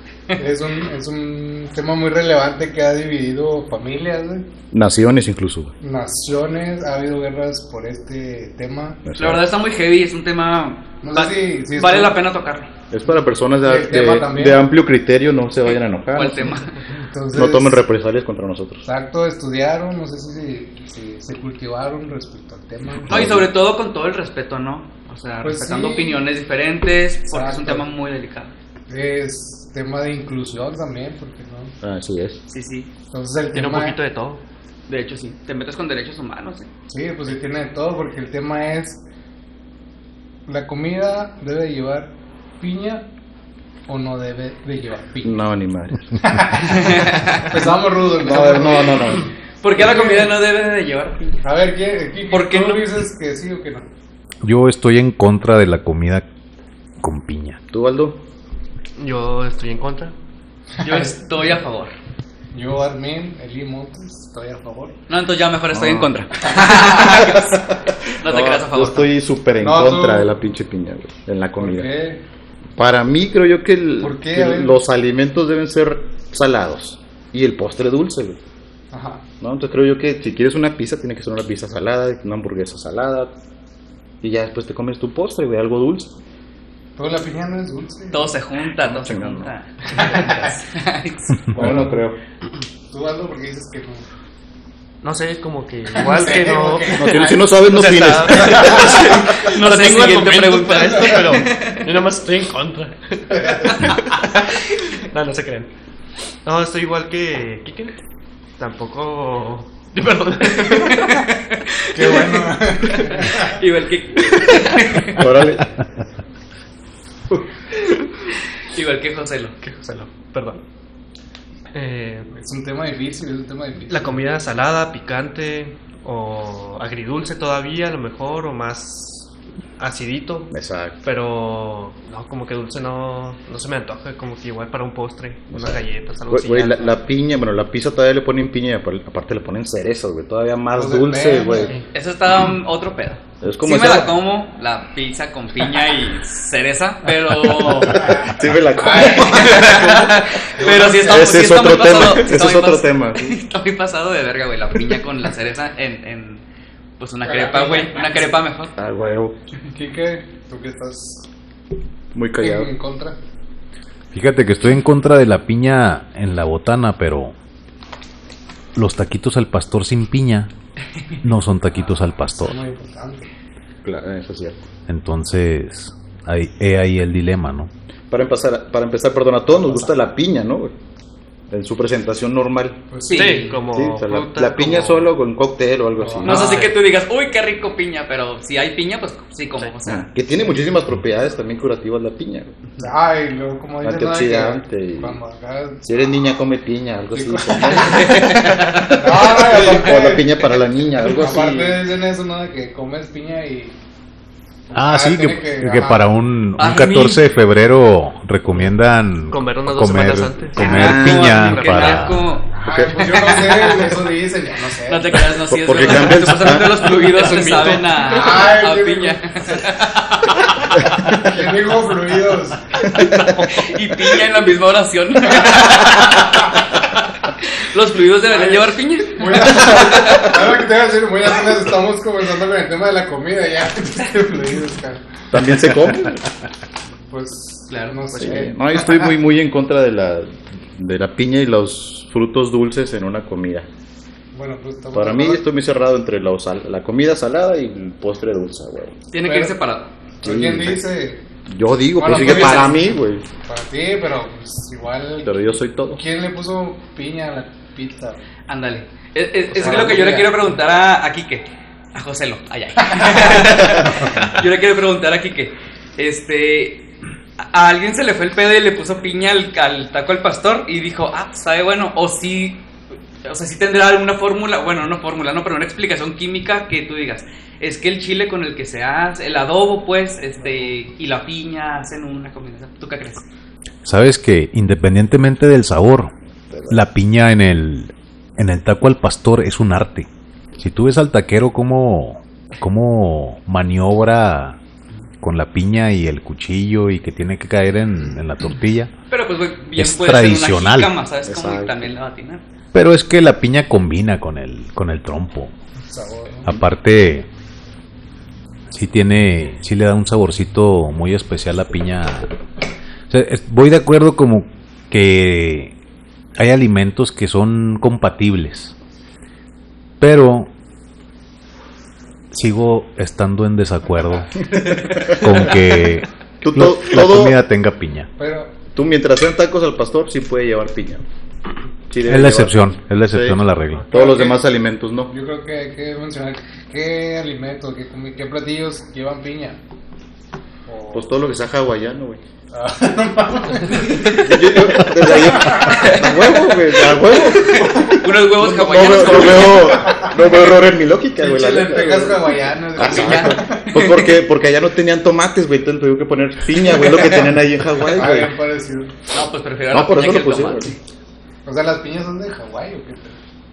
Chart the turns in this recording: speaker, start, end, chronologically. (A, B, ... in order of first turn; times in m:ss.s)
0:00.4-0:04.4 A
0:04.7-0:05.7 B
0:05.8-0:09.0 A
0:09.0-0:09.4 B
0:09.2-0:12.7 C
0:11.0-0:12.1 A
0:12.9-0:16.6 B
0:13.6-0:14.6 A
0:16.1-0:16.8 C
0:16.9-0:17.8 A
0:17.3-0:18.8 B
0:18.8-0:23.2 A
0:23.1-0:23.5 B
0:23.1-0:28.5 C
0:25.4-0:26.2 A
0:27.3-0:27.9 A
0:28.9-0:31.8 A
0:31.8-0:32.4 B
0:32.5-0:32.9 C
0:33.1-0:34.0 A
0:33.5-0:34.4 D
0:34.9-0:36.7 C
0:36.9-0:39.0 A
0:40.5-0:43.1 A
0:43.9-0:45.5 A
0:45.2-0:46.0 B
0:46.2-0:50.3 A
0:46.8-0:47.5 C
0:48.2-0:49.2 B
0:49.6-0:51.4 C
0:51.4-0:53.8 A
0:52.3-0:52.8 C
0:54.4-0:56.2 E
0:57.0-0:57.6 E
0:57.7-0:58.2 B
0:59.0-1:00.1 D
1:00.8-1:01.2 A
1:00.8-1:01.9 C
1:02.5-1:05.0 A
1:05.1-1:07.6 C
1:05.7-1:11.9 B
1:08.2-1:09.1 C
1:09.6-1:10.3 A
1:11.6-1:12.2 A
1:12.8-1:18.4 B
1:14.0-1:14.8 A
1:18.9-1:19.2 A
1:19.4-1:23.4 B
1:24.2-1:26.1 B
1:27.0-1:28.3 A
1:28.1-1:31.4 C
1:28.8-1:29.5 B
1:29.9-1:30.4 D
1:30.0-1:30.5 A
1:31.5-1:32.2 B
1:31.6-1:32.0 A
1:32.9-1:34.0 A
1:35.0-1:45.7 D
1:36.0-1:37.4 A
1:37.0-1:39.0 B
1:38.5-1:38.8 A
1:38.5-1:41.9 C
1:43.3-1:44.0 A
1:46.4-1:48.0 D
1:48.6-1:51.3 D
1:50.6-1:55.2 C
1:51.9-1:53.5 A
1:55.1-1:55.7 B
1:58.6-1:59.5 C
1:59.6-2:00.6 D
2:01.7-2:02.3 D
2:02.3-2:04.2 A
2:03.9-2:17.0 D
2:10.5-2:11.0 B
2:15.5-2:21.8 B
2:20.8-2:21.8 A
2:21.9-2:28.1 C
2:23.4-2:24.2 B
2:27.9-2:33.4 B
2:27.9-2:29.8 A
2:28.9-2:36.4 C
2:30.5-2:31.3 A
2:37.0-2:38.7 C
2:37.2-2:38.1 A
2:38.8-2:39.3 B
2:39.7-2:41.2 A
2:42.1-2:42.7 B
2:42.4-2:43.2 A
2:44.1-2:47.3 E
2:48.7-2:50.5 E
2:51.2-2:52.6 E
2:52.3-2:53.3 A
2:53.8-2:54.6 B
2:54.9-2:57.7 E
2:58.1-3:00.7 B
3:01.5-3:02.8 B
3:02.9-3:03.6 A
3:03.0-3:03.6 C
3:03.1-3:05.1 D
3:03.7-3:06.6 B
3:06.0-3:06.3 A
3:06.2-3:10.1 C
3:06.2-3:06.7 D
3:09.8-3:12.6 B
3:12.8-3:16.1 A
3:13.8-3:15.2 B
3:15.8-3:21.8 B
3:17.1-3:18.3 A
3:17.8-3:18.9 C
3:18.9-3:20.3 A
3:21.0-3:23.7 A
3:24.7-3:26.0 A
3:24.7-3:32.2 E
3:26.6-3:27.2 C
3:29.3-3:32.1 D
3:30.6-3:33.9 C
3:30.7-3:31.2 B
3:32.5-3:35.2 A
3:32.7-3:33.3 B
3:34.9-3:40.7 C
3:35.5-3:36.9 B
3:36.0-3:38.5 D
3:38.0-3:39.6 A
3:41.1-3:42.8 A
3:42.8-3:43.4 B
3:42.9-3:43.7 D
3:43.5-3:50.4 C
3:48.3-3:55.1 A
3:55.3-3:56.2 B
3:57.1-3:59.1 A
3:58.2-4:03.7 B
4:04.3-4:05.4 A
4:04.9-4:09.0 B
4:09.1-4:09.9 C
4:09.2-4:09.5 A
4:10.2-4:11.2 A
4:10.2-4:10.8 B
4:11.5-4:13.2 B
4:12.0-4:12.8 A
4:12.0-4:12.8 C
4:13.4-4:18.2 A
4:15.2-4:16.0 B
4:18.5-4:26.9 C
4:19.5-4:20.4 A
4:19.5-4:20.1 D
4:23.6-4:23.8 B
4:27.4-4:32.6 C
4:33.2-4:43.2 C
4:40.4-4:40.7 A
4:43.8-4:46.1 E
4:46.5-4:46.8 B
4:46.7-4:54.6 E
4:55.2-4:58.9 E
4:59.1-5:02.4 C
4:59.8-5:00.9 E
5:01.2-5:01.9 B
5:02.7-5:05.5 E
5:05.8-5:06.6 A
5:06.4-5:07.2 E
5:08.7-5:12.3 E
5:13.1-5:15.7 E
5:16.4-5:18.7 E
5:20.0-5:20.5 E
5:22.3-5:28.1 E
5:24.5-5:25.5 B
5:26.4-5:27.4 B
5:28.2-5:28.5 A
5:28.7-5:31.0 B
5:31.9-5:33.4 B
5:32.0-5:33.8 E
5:33.9-5:34.4 A
5:33.9-5:35.1 B
5:35.1-5:39.6 A
5:40.6-5:41.1 A
5:40.9-5:42.2 B
5:42.5-5:44.2 A
5:43.7-5:44.3 C
5:44.1-5:58.3 B
5:45.0-5:45.9 A
5:45.6-5:49.9 C
5:49.8-5:50.2 A
5:51.2-5:53.7 A
5:52.8-5:54.2 C
5:57.9-5:58.9 A
5:59.1-6:00.8 C
5:59.7-6:00.7 B
6:01.4-6:03.2 A